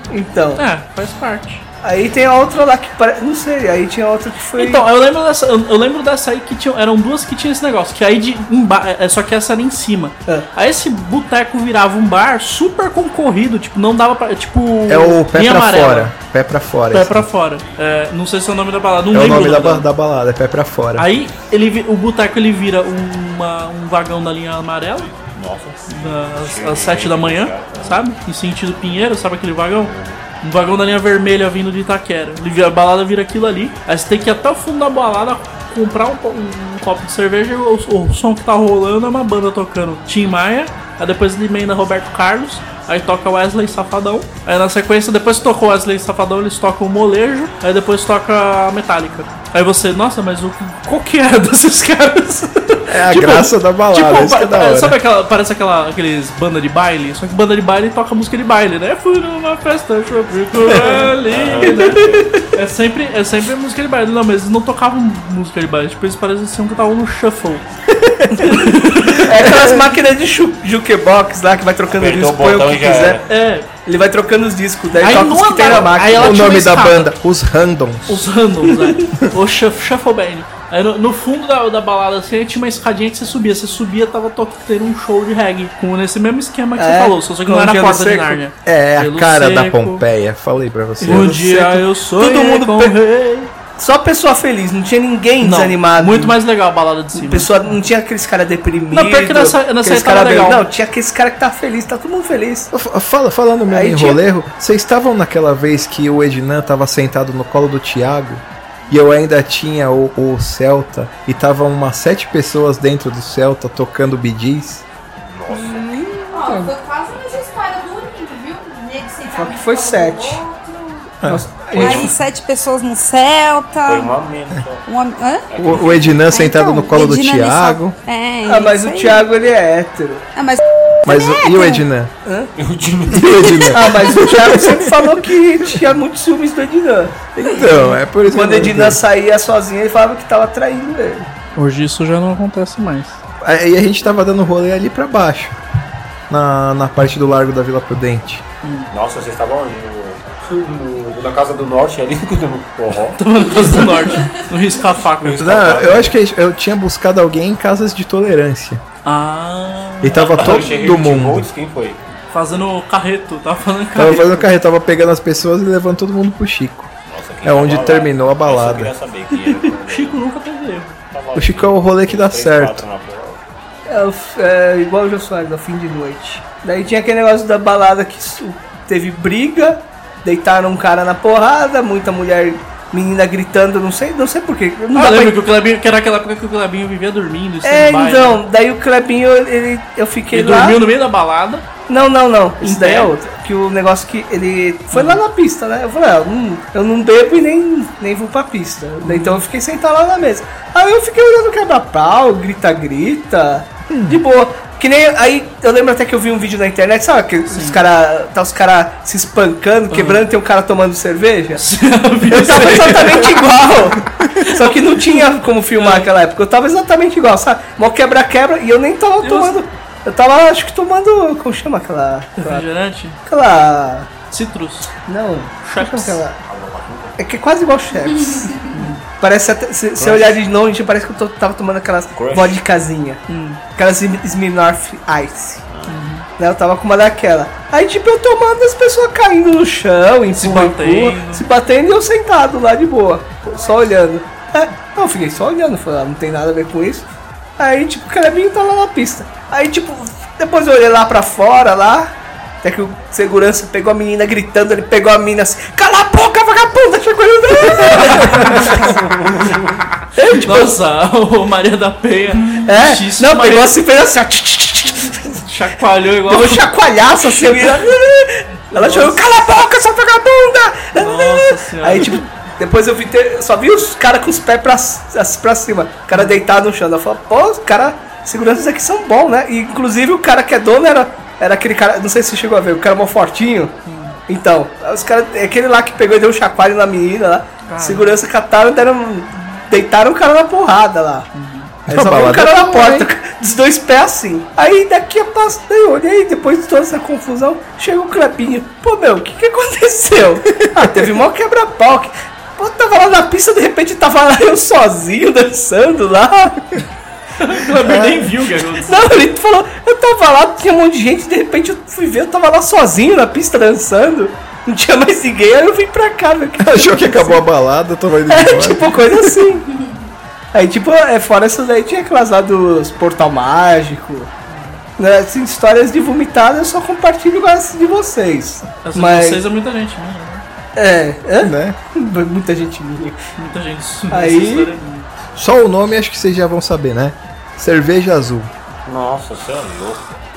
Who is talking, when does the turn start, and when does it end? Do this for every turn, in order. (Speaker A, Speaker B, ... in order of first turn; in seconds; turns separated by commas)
Speaker A: 0.1-0.6, Speaker B: 0.6-1.6, Speaker A: 1.8-4.8, Speaker B: 4.6-16.1, Speaker C: 14.9-17.3, Speaker B: 16.9-19.9, Speaker C: 19.1-21.1, Speaker B: 21.0-25.1, Speaker D: 25.3-28.0, Speaker B: 25.9-67.6, Speaker D: 29.9-30.2, Speaker C: 52.9-55.0, Speaker D: 61.2-62.3, Speaker A: 61.6-62.3, Speaker A: 68.1-73.2, Speaker B: 68.4-69.3, Speaker D: 71.9-73.2, Speaker B: 73.3-73.7, Speaker A: 73.8-76.5, Speaker B: 75.0-77.1, Speaker C: 76.1-78.2, Speaker B: 78.1-90.0, Speaker A: 86.8-88.4, Speaker C: 88.6-91.4, Speaker B: 91.0-93.5, Speaker A: 91.0-93.0, Speaker A: 93.8-96.4, Speaker B: 95.4-97.5, Speaker A: 97.2-102.7, Speaker B: 98.9-100.7, Speaker C: 102.7-114.8, Speaker A: 103.7-104.2, Speaker D: 115.2-116.1, Speaker A: 115.5-116.7, Speaker E: 116.3-121.2, Speaker A: 119.3-120.4, Speaker C: 121.2-122.0, Speaker A: 121.3-122.1, Speaker E: 121.7-124.1, Speaker D: 121.7-122.1, Speaker D: 123.8-124.8, Speaker E: 124.9-125.5, Speaker D: 125.5-126.2, Speaker C: 125.6-128.0, Speaker E: 126.3-129.2, Speaker A: 128.4-130.3, Speaker E: 130.3-131.8, Speaker C: 131.1-132.1, Speaker A: 132.2-132.5, Speaker D: 132.6-133.8, Speaker C: 133.1-135.1, Speaker A: 133.7-141.3, Speaker C: 137.4-139.0, Speaker B: 141.6-143.2, Speaker C: 143.4-145.6, Speaker C: 146.3-148.4, Speaker B: 148.6-148.9, Speaker D: 148.9-153.8, Speaker B: 153.2-155.6, Speaker D: 155.2-156.2, Speaker C: 155.4-158.8, Speaker B: 159.1-160.8, Speaker C: 160.0-161.5, Speaker D: 160.1-162.0, Speaker B: 162.3-164.5, Speaker C: 163.9-166.9, Speaker D: 167.1-170.2, Speaker C: 167.4-168.9, Speaker B: 169.9-171.0, Speaker D: 171.1-173.4, Speaker C: 171.3-172.8, Speaker A: 173.9-185.4, Speaker B: 184.9-188.4, Speaker A: 187.6-190.8, Speaker B: 190.3-191.7, Speaker A: 191.9-211.6, Speaker B: 192.6-193.1, Speaker B: 194.9-195.2, Speaker B: 199.0-199.4, Speaker C: 203.9-204.2, Speaker B: 207.5-207.8, Speaker B: 209.9-210.2, Speaker B: 211.6-213.4, Speaker A: 212.3-222.7, Speaker B: 214.4-216.1, Speaker B: 219.2-219.6, Speaker B: 222.4-223.2, Speaker A: 223.3-224.1, Speaker B: 224.3-224.9, Speaker A: 225.1-226.4, Speaker B: 225.6-226.2, Speaker D: 226.5-227.2, Speaker A: 227.2-233.2, Speaker B: 228.7-229.0, Speaker D: 230.0-230.4, Speaker D: 232.2-232.6, Speaker B: 233.3-233.6, Speaker A: 233.8-235.6, Speaker D: 235.7-236.0, Speaker B: 235.9-236.2, Speaker A: 236.4-247.1, Speaker B: 240.3-241.4, Speaker A: 247.6-259.0, Speaker B: 257.9-258.9, Speaker D: 258.7-259.8, Speaker A: 260.1-260.7, Speaker B: 260.4-263.8, Speaker A: 262.5-265.4, Speaker B: 265.4-266.6, Speaker A: 266.2-283.8, Speaker B: 267.5-267.8, Speaker B: 268.7-269.3, Speaker B: 271.0-272.2, Speaker B: 276.1-276.4, Speaker B: 283.9-284.2, Speaker A: 284.3-291.3, Speaker B: 287.7-288.2, Speaker B: 291.3-291.7, Speaker C: 291.9-293.1, Speaker A: 291.9-306.7, Speaker B: 307.4-309.2, Speaker C: 307.8-308.3, Speaker A: 308.8-317.4, Speaker C: 316.6-319.3, Speaker A: 318.3-319.7, Speaker A: 320.5-324.3, Speaker B: 324.5-324.8, Speaker A: 325.0-329.4, Speaker B: 328.8-330.4, Speaker A: 330.8-333.2, Speaker C: 331.4-331.8, Speaker B: 333.4-335.2, Speaker A: 334.1-334.7, Speaker C: 335.4-338.5, Speaker D: 338.9-340.1